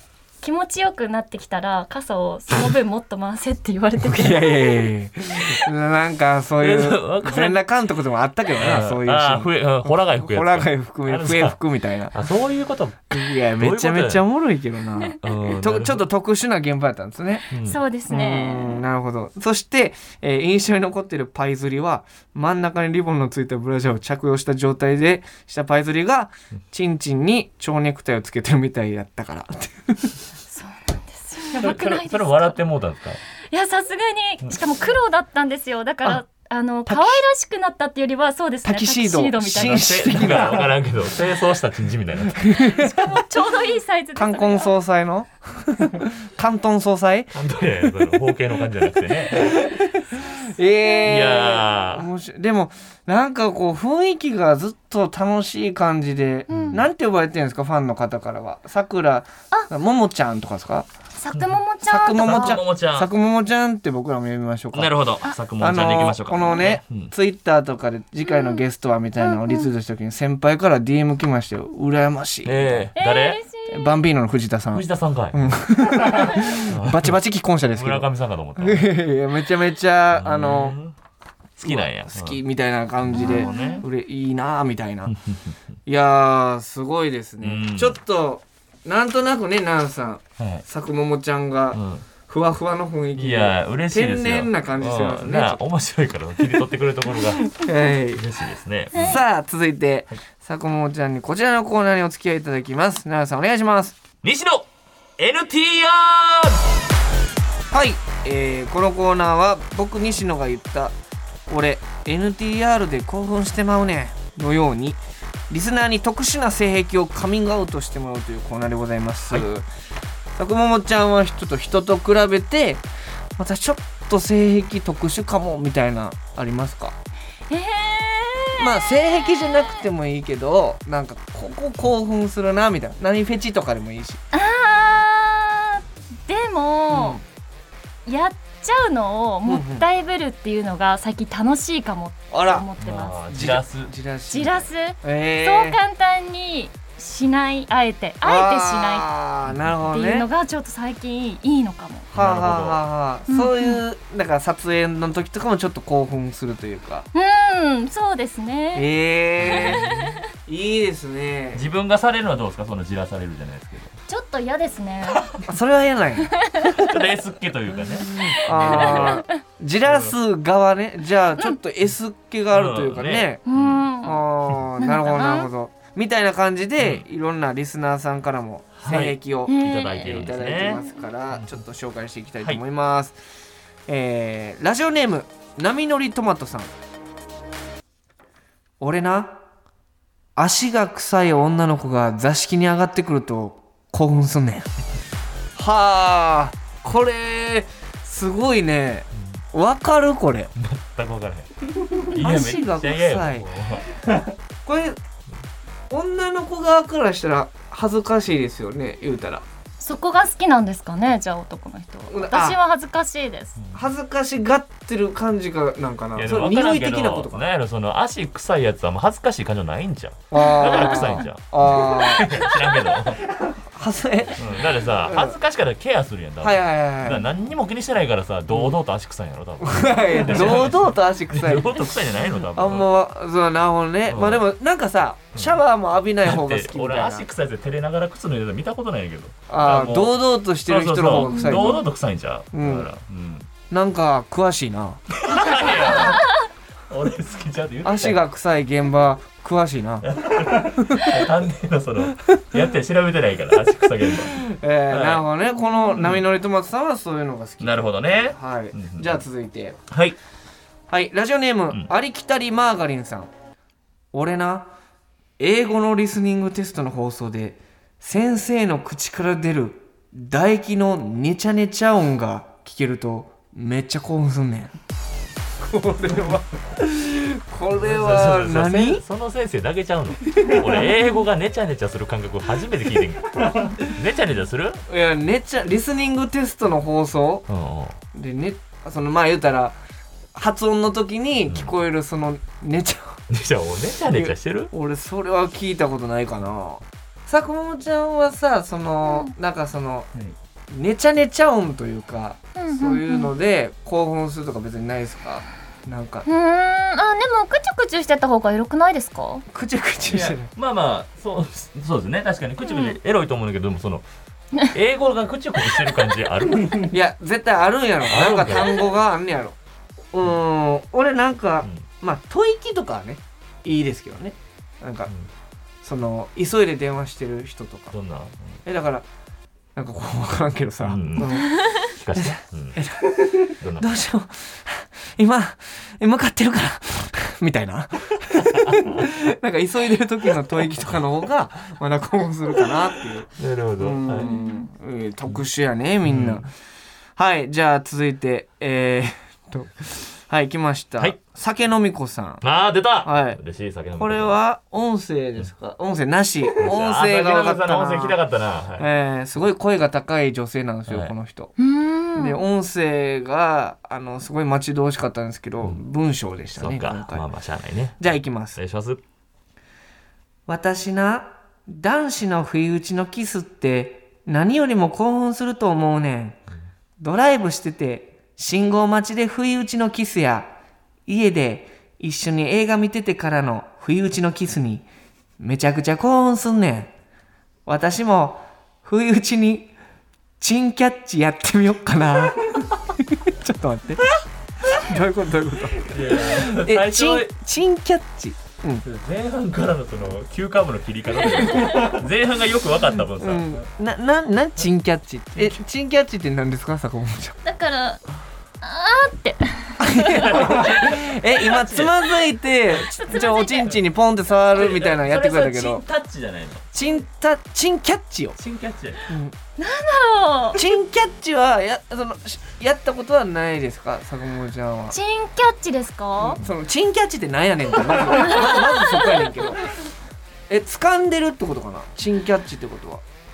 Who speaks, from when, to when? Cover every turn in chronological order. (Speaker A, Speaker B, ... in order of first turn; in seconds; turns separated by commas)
Speaker A: 0.4-4.9, Speaker B: 4.0-12.1, Speaker C: 6.6-7.6, Speaker C: 8.6-11.6, Speaker C: 12.1-14.2, Speaker B: 13.1-17.4, Speaker C: 15.2-16.1, Speaker C: 17.5-17.8, Speaker A: 17.5-18.8, Speaker B: 18.1-30.1, Speaker A: 30.5-32.6, Speaker C: 31.5-33.2, Speaker A: 33.5-39.9, Speaker B: 36.9-37.2, Speaker B: 38.6-40.7, Speaker C: 39.5-42.4, Speaker B: 42.3-43.2, Speaker A: 42.6-44.7, Speaker B: 44.1-48.1, Speaker C: 47.3-49.6, Speaker B: 49.3-60.9, Speaker C: 51.0-52.1, Speaker C: 56.5-56.8, Speaker A: 61.1-62.6, Speaker C: 61.3-61.6, Speaker B: 61.9-65.0, Speaker C: 62.2-63.1, Speaker C: 64.7-67.1, Speaker B: 65.6-72.8, Speaker A: 68.2-68.6, Speaker A: 69.2-69.7, Speaker C: 72.4-73.4, Speaker A: 73.0-74.0, Speaker B: 73.7-80.8, Speaker C: 74.7-77.2, Speaker C: 77.7-79.0, Speaker C: 80.1-81.0, Speaker C: 81.6-82.4, Speaker B: 81.6-85.1, Speaker C: 83.0-83.8, Speaker A: 83.1-83.8, Speaker C: 85.1-85.5, Speaker B: 85.8-95.6, Speaker C: 87.4-88.0, Speaker C: 90.4-90.6, Speaker C: 91.7-92.1, Speaker C: 93.2-97.5, Speaker B: 97.4-98.3, Speaker C: 98.1-99.2, Speaker B: 98.9-104.0, Speaker C: 104.2-106.6, Speaker B: 107.7-110.9, Speaker B: 111.5-115.0, Speaker B: 115.5-119.7, Speaker B: 120.4-122.8, Speaker B: 123.4-126.9, Speaker A: 127.5-129.8, Speaker B: 128.6-134.2, Speaker A: 134.3-137.2, Speaker B: 136.9-137.2, Speaker A: 138.1-143.2, Speaker B: 139.4-139.8, Speaker B: 142.3-142.6, Speaker C: 142.8-143.9, Speaker B: 143.3-145.8, Speaker A: 144.3-149.1, Speaker B: 148.2-150.2, Speaker C: 149.4-149.8, Speaker A: 149.9-152.1, Speaker C: 152.1-152.8, Speaker B: 152.1-157.1, Speaker A: 153.3-153.8, Speaker A: 157.1-158.9, Speaker B: 158.7-159.8, Speaker C: 159.4-160.2, Speaker A: 159.4-160.2, Speaker B: 160.4-161.6, Speaker C: 161.5-163.9, Speaker A: 164.1-165.3, Speaker B: 165.4-166.3, Speaker A: 166.3-166.8, Speaker C: 166.7-169.2, Speaker B: 168.1-173.4, Speaker A: 168.5-169.3, Speaker C: 169.8-170.1, Speaker C: 172.5-173.9, Speaker A: 173.5-174.2, Speaker B: 174.0-183.2, Speaker A: 174.8-175.5, Speaker C: 176.8-177.0, Speaker C: 178.8-181.6, Speaker A: 179.5-180.2, Speaker B: 183.9-186.7, Speaker B: 188.8-189.4, Speaker B: 190.3-194.7, Speaker B: 195.6-200.5, Speaker C: 200.5-204.3, Speaker B: 202.1-203.4, Speaker B: 204.6-205.0, Speaker B: 205.9-209.4, Speaker A: 209.8-213.6, Speaker B: 212.1-212.6, Speaker B: 213.7-217.5, Speaker C: 216.1-223.3, Speaker B: 220.3-222.5, Speaker A: 220.3-221.2, Speaker B: 223.7-225.4, Speaker C: 224.3-232.9, Speaker B: 226.4-227.2, Speaker B: 229.6-231.9, Speaker B: 232.5-237.2, Speaker C: 234.1-234.4, Speaker C: 235.3-235.6, Speaker C: 236.2-243.5, Speaker B: 239.5-241.8, Speaker A: 241.1-241.8, Speaker B: 242.5-242.9, Speaker B: 243.7-245.0, Speaker C: 245.1-246.3, Speaker C: 246.9-248.2, Speaker B: 247.8-251.2, Speaker C: 250.0-255.2, Speaker B: 254.3-259.8, Speaker C: 256.0-256.2, Speaker C: 257.6-259.2, Speaker C: 259.9-260.2, Speaker B: 260.9-263.3, Speaker B: 264.1-264.7, Speaker B: 265.4-274.7, Speaker B: 275.6-279.0, Speaker C: 277.7-284.8, Speaker B: 280.4-280.6, Speaker B: 284.9-287.4, Speaker C: 287.5-287.9, Speaker B: 288.1-289.8, Speaker B: 290.3-293.2, Speaker C: 293.3-294.7, Speaker B: 294.1-300.1, Speaker A: 299.0-299.3, Speaker B: 300.7-306.2, Speaker A: 302.6-303.3, Speaker A: 306.3-309.4, Speaker B: 309.5-310.5, Speaker C: 310.0-314.0, Speaker A: 312.6-312.9, Speaker C: 314.7-316.9, Speaker B: 316.9-319.6, Speaker C: 318.0-318.9, Speaker B: 320.1-325.1, Speaker B: 325.8-327.9, Speaker C: 327.9-328.6, Speaker B: 328.6-329.1, Speaker B: 329.8-346.5, Speaker C: 330.8-332.8, Speaker C: 333.6-333.9, Speaker C: 338.5-339.1, Speaker C: 343.4-344.3, Speaker A: 344.3-344.7, Speaker C: 346.0-346.5, Speaker B: 347.1-352.4, Speaker C: 352.4-354.4, Speaker B: 353.0-353.4, Speaker B: 354.0-358.2, Speaker C: 356.5-358.9, Speaker B: 358.8-361.5, Speaker C: 360.9-361.1, Speaker A: 361.6-362.4, Speaker B: 362.1-367.3, Speaker C: 366.6-369.0, Speaker B: 368.0-368.6, Speaker B: 370.5-376.4, Speaker B: 377.0-380.5, Speaker B: 381.1-384.8, Speaker B: 385.4-386.9, Speaker B: 387.6-389.7, Speaker B: 390.4-398.8, Speaker C: 395.8-397.3, Speaker C: 398.8-403.6, Speaker A: 401.5-401.9, Speaker B: 403.2-407.4, Speaker A: 407.4-408.0, Speaker A: 408.6-410.7, Speaker B: 409.8-415.8, Speaker C: 410.2-412.0, Speaker A: 412.7-413.7, Speaker C: 414.4-416.6, Speaker B: 416.7-418.4, Speaker C: 418.4-419.1, Speaker B: 419.1-419.3, Speaker A: 419.6-420.6, Speaker B: 420.6-424.9, Speaker A: 424.9-426.4, Speaker B: 426.2-429.6, Speaker A: 427.8-429.5, Speaker B: 430.5-433.0